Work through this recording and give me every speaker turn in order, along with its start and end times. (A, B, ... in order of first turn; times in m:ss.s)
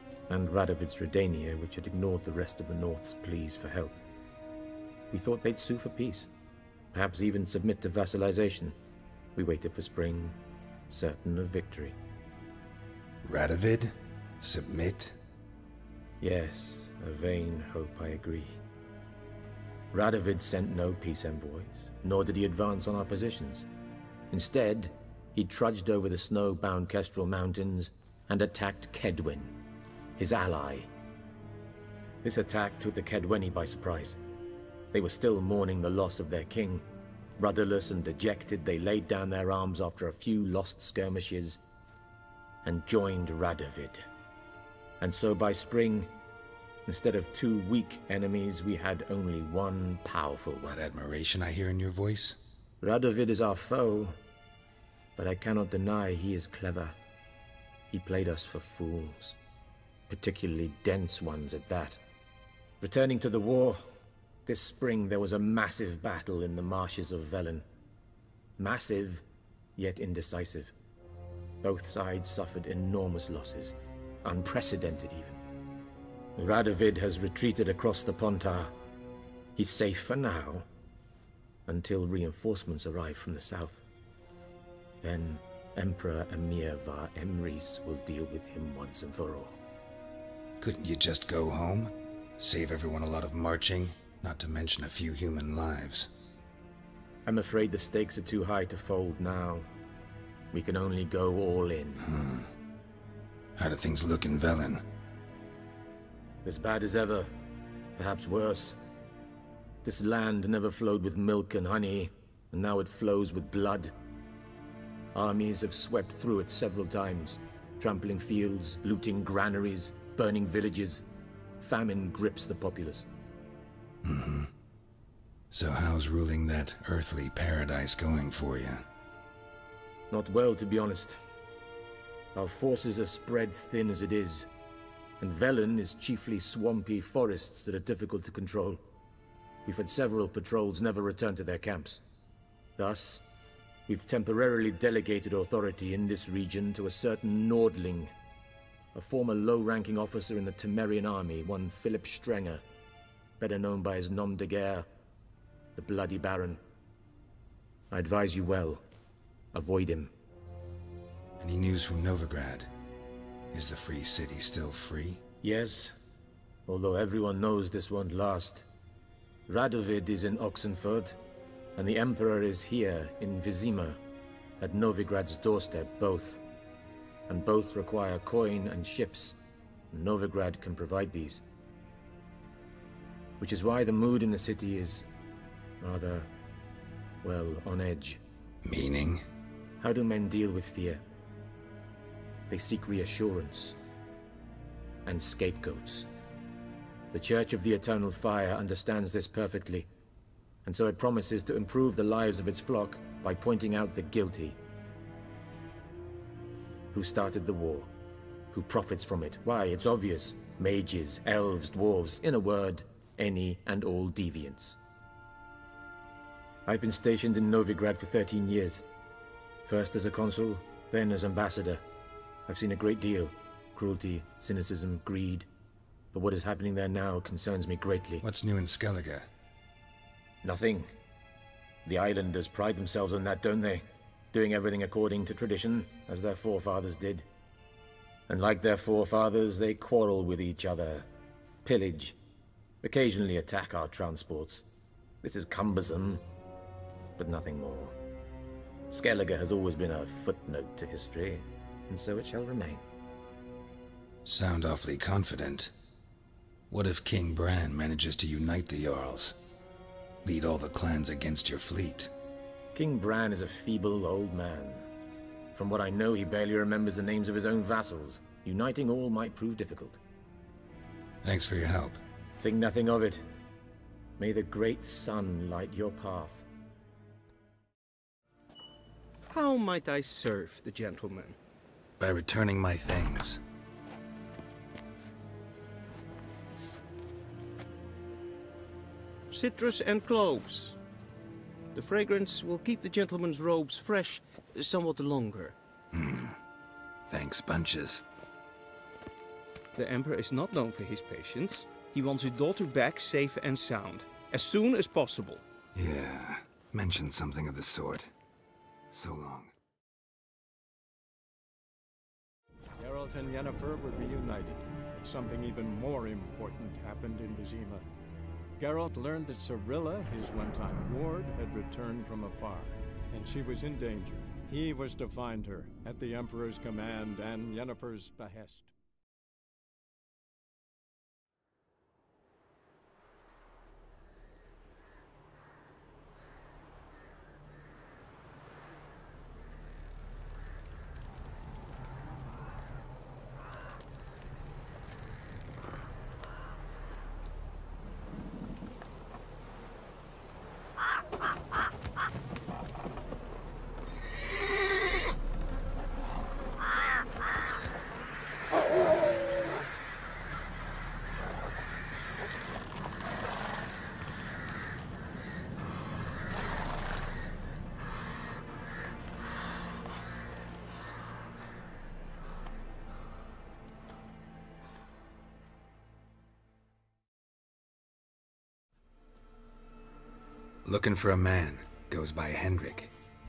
0:00.3-0:04.0 A
0:05.1-0:06.3 A
0:06.9-0:08.7 A
0:09.4-0:10.4 A
0:10.9-0:12.0 A
0:13.2-0:15.1 B
0:16.2-0:18.6 A
0:19.9-0:23.6 A
0:24.3-0:29.5 A
0:30.2-0:30.9 A
0:32.2-0:34.2 A
0:34.9-0:36.8 A
0:37.4-0:41.6 A
0:42.6-0:44.0 A
0:45.0-0:46.1 A
0:46.8-0:50.8 A
0:50.7-0:52.4 B
0:52.8-0:54.2 A
0:55.2-0:57.0 A
0:57.9-0:59.4 A
1:00.1-1:02.0 A
1:02.8-1:03.9 A
1:04.4-1:07.6 A
1:08.6-1:09.2 A
1:09.8-1:10.7 A
1:11.6-1:15.4 A
1:16.4-1:18.7 A
1:19.6-1:20.7 A
1:21.6-1:23.8 A
1:25.0-1:29.6 A
1:30.6-1:36.1 B
1:37.2-1:39.7 A
1:40.5-1:42.0 A
1:42.0-1:42.5 B
1:43.6-1:44.8 B
1:46.4-1:47.3 A
1:48.0-1:48.8 A
1:49.8-1:53.9 A
1:55.1-2:01.0 A
2:01.6-2:03.1 A
2:04.0-2:04.5 B
2:05.5-2:08.8 B
2:10.1-2:11.2 A
2:12.3-2:14.5 A
2:15.2-2:18.8 A
2:19.6-2:22.0 A
2:22.8-2:23.2 A
2:23.9-2:28.1 A
2:28.9-2:32.6 A
2:33.4-2:34.9 A
2:35.8-2:36.6 A
2:37.9-2:38.8 A
2:39.5-2:40.1 A
2:41.4-2:42.7 B
2:43.5-2:45.2 B
2:45.4-2:46.0 A
2:46.6-2:48.7 A
2:49.5-2:51.2 A
2:51.8-2:54.0 A
2:54.6-2:56.4 A
2:57.3-2:59.4 A
2:59.9-3:01.4 A
3:03.4-3:05.1 A
3:05.8-3:06.3 A
3:07.2-3:08.2 A
3:08.6-3:09.2 B
3:09.8-3:11.0 A
3:12.5-3:13.8 A
3:15.0-3:16.1 A
3:17.1-3:19.9 A
3:20.6-3:24.6 A
3:26.9-3:27.9 A
3:28.5-3:34.8 A
3:36.6-3:38.8 A
3:39.6-3:41.8 A
3:42.5-3:45.5 A
3:46.1-3:48.2 A
3:48.2-3:49.3 B
3:50.4-3:50.9 A
3:51.8-3:57.2 A
3:58.3-4:01.1 A
4:01.6-4:02.2 A
4:02.8-4:04.6 A
4:05.2-4:06.2 A
4:07.2-4:08.0 A
4:08.9-4:12.8 A
4:14.2-4:15.7 B
4:16.7-4:19.3 B
4:20.2-4:22.1 B
4:22.7-4:24.8 A
4:25.5-4:30.0 A
4:31.2-4:32.0 B
4:32.4-4:33.2 A
4:34.2-4:36.4 A
4:39.3-4:41.4 C
4:42.0-4:43.4 B
4:49.3-4:50.8 C
4:51.7-4:55.5 C
4:55.9-4:56.4 B
4:57.1-4:58.0 B
4:59.8-5:05.4 C
5:05.7-5:08.1 B
5:08.9-5:09.5 B
5:12.8-5:17.8 D
5:18.6-5:28.7 D
6:20.6-6:22.9 B